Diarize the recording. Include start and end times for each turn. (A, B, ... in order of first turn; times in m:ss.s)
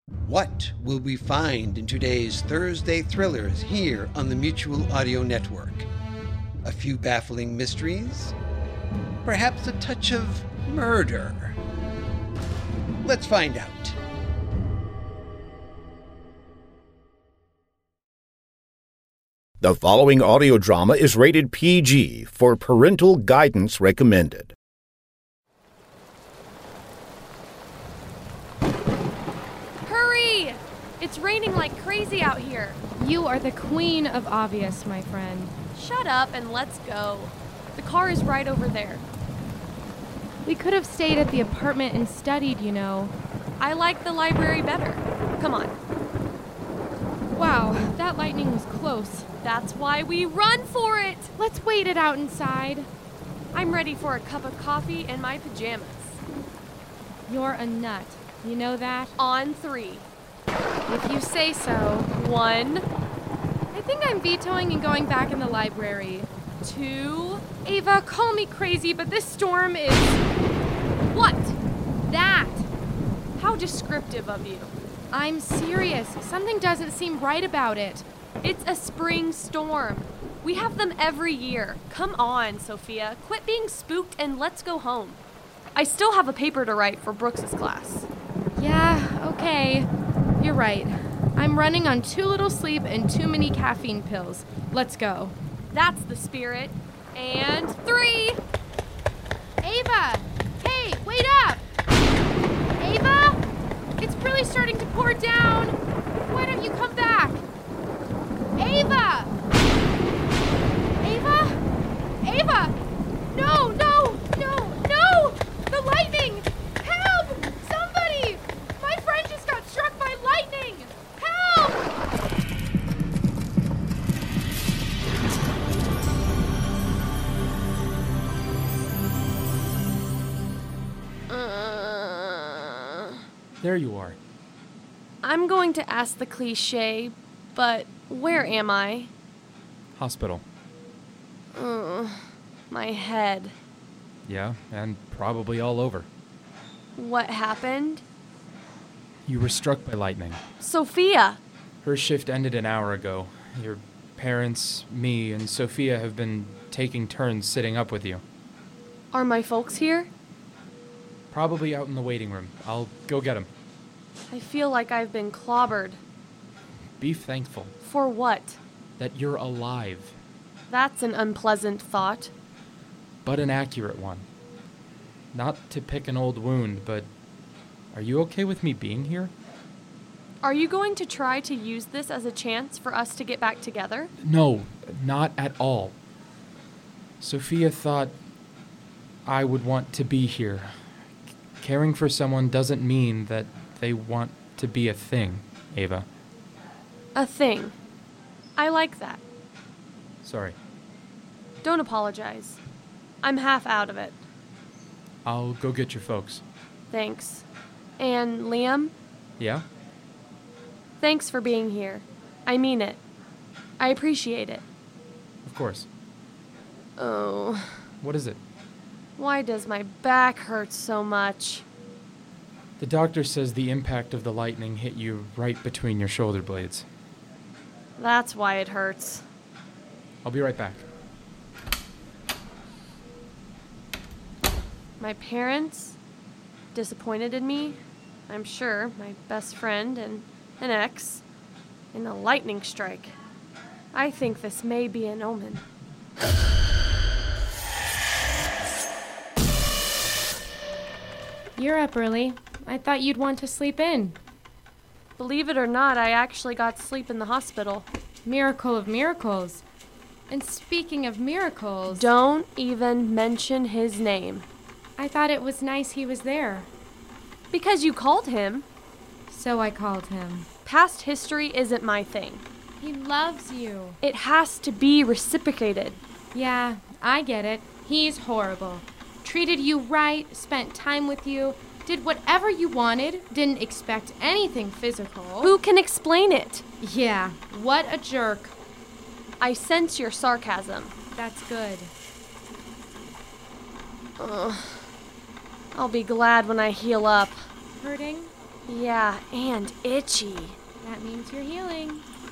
0:00.3-0:05.9 A
0:06.6-0:08.3 A
0:09.2-0:11.6 A
0:13.0-0:14.0 A
0:19.6-0:24.5 B
0:29.8-0:32.8 C
0:33.0-0:35.5 D
0:35.7-0:39.0 C
0:40.4-0:43.1 D
0:43.6-0:45.7 C
0:47.3-0:49.3 D
0:49.4-0:51.3 C
0:51.4-0:52.9 D
0:53.5-0:56.2 C
0:57.3-0:59.1 D
0:59.2-1:00.1 C
1:00.9-1:02.1 D
1:02.2-1:02.8 C
1:03.7-1:10.2 D
1:06.6-1:07.4 C
1:11.1-1:11.6 C
1:12.1-1:12.7 D
1:13.4-1:14.7 C
1:15.1-1:18.0 D
1:18.4-1:25.2 C
1:25.7-1:28.1 C
1:28.6-1:29.9 D
1:30.4-1:35.3 D
1:35.7-1:38.4 C
1:39.6-1:41.6 D
1:42.8-1:43.4 D
1:44.0-1:47.4 D
1:48.6-1:49.3 D
1:51.0-1:51.6 D
1:52.2-1:52.8 D
1:53.3-2:01.9 D
2:11.3-2:13.2 C
2:13.6-2:14.2 E
2:15.2-2:19.1 C
2:20.0-2:20.4 E
2:21.5-2:23.5 C
2:24.2-2:26.1 E
2:27.0-2:28.0 C
2:29.2-2:30.4 E
2:30.6-2:31.4 C
2:31.8-2:38.2 E
2:39.1-2:40.1 C
2:41.3-2:43.5 E
2:44.3-2:46.0 C
2:47.0-2:47.7 E
2:47.8-2:48.6 C
2:49.0-2:50.1 E
2:50.7-2:52.3 C
2:53.2-2:54.2 E
2:55.3-2:57.1 E
2:57.9-2:59.3 E
3:00.4-3:04.1 C
3:04.2-3:05.9 E
3:07.2-3:08.1 E
3:09.2-3:10.8 E
3:11.6-3:16.1 E
3:17.1-3:17.7 C
3:18.6-3:19.2 C
3:20.2-3:20.6 E
3:21.6-3:22.6 C
3:23.2-3:24.2 C
3:25.2-3:26.4 E
3:26.9-3:27.4 C
3:28.0-3:28.9 C
3:29.4-3:29.6 E
3:31.0-3:33.0 C
3:33.8-3:34.6 C
3:35.4-3:35.9 E
3:37.0-3:37.8 C
3:38.0-3:38.4 E
3:39.2-3:41.6 C
3:42.8-3:46.8 E
3:48.0-3:49.2 C
3:50.2-3:50.8 E
3:55.0-3:56.0 C
3:56.7-4:01.2 C
4:01.9-4:03.2 C
4:03.9-4:05.6 C
4:11.6-4:14.2 D
4:15.2-4:17.8 C
4:18.2-4:19.6 D
4:20.3-4:22.1 D
4:21.9-4:24.5 C
4:25.0-4:26.7 D
4:27.5-4:28.7 C
4:29.3-4:30.5 D
4:30.6-4:32.4 C
4:32.8-4:34.0 D
4:34.0-4:36.0 C
4:36.3-4:45.6 D
4:45.4-4:46.6 C
4:46.8-4:48.5 D
4:49.4-4:50.9 C
4:51.1-4:51.9 D
4:54.2-4:54.9 C
4:55.7-4:57.4 C
4:57.8-4:58.3 D
4:58.7-5:00.6 C
5:00.8-5:02.0 D